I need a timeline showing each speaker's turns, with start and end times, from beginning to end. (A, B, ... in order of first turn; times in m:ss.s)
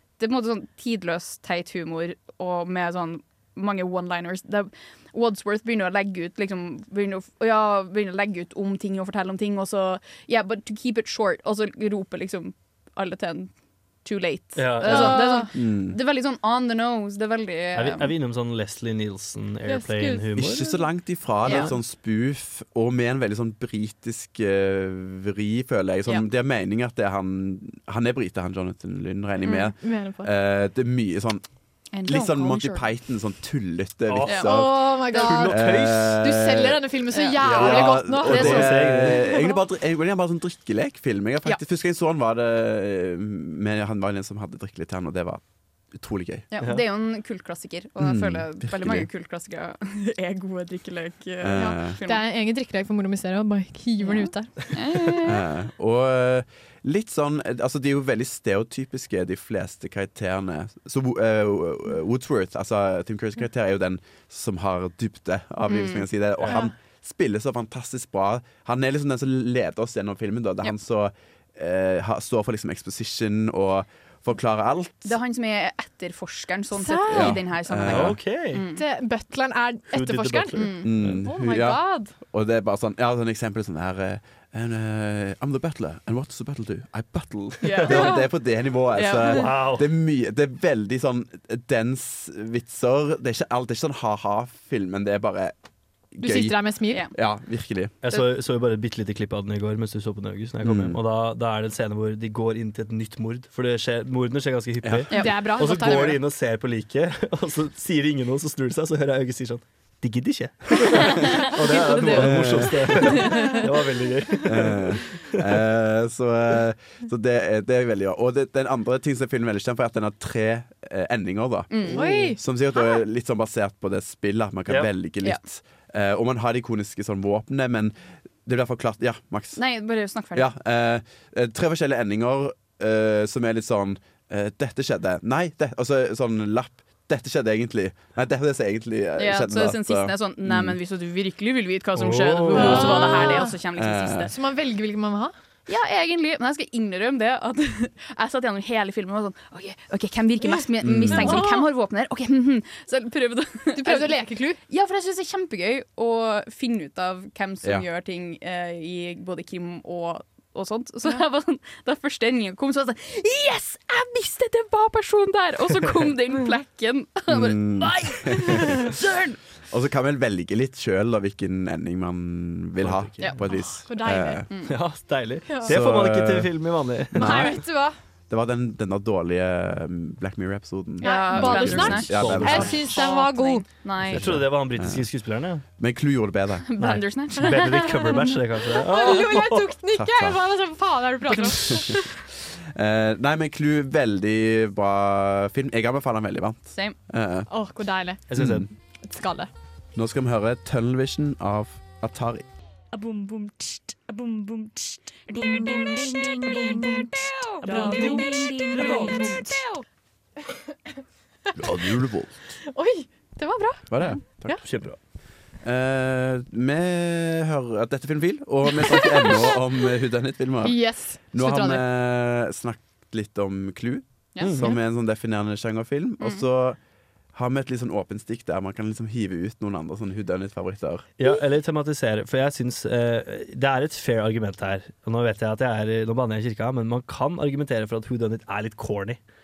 0:00.2-0:13.5 A
0:14.0-0:18.1 A
0:14.6-0:15.2 B
0:14.8-0:15.5 C
0:15.5-0:16.0 D
0:17.7-0:20.7 B
0:19.6-0:20.8 C
0:20.4-0:31.4 D
0:21.4-0:21.7 A
0:29.4-0:29.7 A
0:29.8-0:30.3 C
0:31.9-0:32.9 A
0:32.0-0:36.8 D
0:34.1-0:36.2 B
0:34.4-0:39.6 C
0:37.1-0:37.7 A
0:37.4-0:45.4 D
0:38.2-0:39.2 B
0:38.3-0:38.6 A
0:45.9-0:46.5 D
0:46.5-0:52.2 A
0:48.0-0:49.1 D
0:51.4-0:52.0 D
0:51.6-0:54.5 C
0:54.0-0:55.4 A
0:55.2-1:15.2 D
1:05.7-1:06.1 A
1:15.0-1:18.8 A
1:16.7-1:17.4 C
1:17.1-1:18.2 D
1:17.8-1:18.6 B
1:18.8-1:22.1 C
1:19.9-1:21.2 B
1:20.5-1:20.9 A
1:20.8-1:35.5 D
1:27.6-1:28.3 A
1:28.9-1:29.5 A
1:29.3-1:29.8 B
1:36.1-1:37.9 D
1:36.2-1:37.0 C
1:38.0-1:55.5 B
1:40.6-1:41.0 D
1:44.8-1:45.1 D
1:45.1-1:46.1 A
1:45.1-1:46.2 C
1:51.6-1:53.6 A
1:52.1-1:53.2 D
1:53.2-1:53.6 C
1:54.4-2:09.6 D
2:01.7-2:02.2 A
2:01.9-2:02.4 C
2:09.6-2:10.5 A
2:10.3-2:20.8 D
2:19.2-2:24.3 A
2:21.9-2:23.0 B
2:22.5-2:23.5 C
2:22.6-2:23.2 D
2:23.7-2:24.3 D
2:24.3-2:25.3 C
2:25.7-2:49.4 A
2:30.8-2:31.5 D
2:31.2-2:31.6 C
2:33.7-2:34.6 C
2:47.3-2:49.0 D
2:49.7-2:54.5 D
2:52.8-2:53.3 B
2:53.5-2:54.4 C
2:54.5-2:54.8 A
2:54.6-2:57.5 B
2:55.5-2:55.7 C
2:55.6-2:57.7 D
2:57.2-2:58.0 C
2:58.3-3:02.9 D
3:01.0-3:04.4 A
3:01.0-3:03.6 C
3:01.7-3:02.8 B
3:04.0-3:05.1 D
3:04.1-3:05.6 B
3:05.6-3:06.7 D
3:06.6-3:08.4 A
3:06.8-3:09.7 B
3:08.8-3:12.1 C
3:09.9-3:10.4 D
3:11.7-3:12.1 D
3:12.7-3:17.5 D
3:17.5-3:18.2 C
3:18.3-3:18.7 B
3:18.3-3:18.7 D
3:19.0-3:19.5 C
3:19.9-3:22.4 D
3:22.9-3:29.6 E
3:27.7-3:28.2 C
3:27.7-3:28.2 A
3:28.8-3:29.5 C
3:31.6-3:32.3 D
3:32.7-3:34.6 C
3:33.9-3:34.7 D
3:34.6-3:35.0 B
3:35.6-3:46.8 D
3:38.9-3:39.4 C
3:40.6-3:41.8 C
3:44.3-3:44.7 A
3:44.4-3:44.7 B
3:47.3-3:51.1 D
3:51.2-3:59.2 B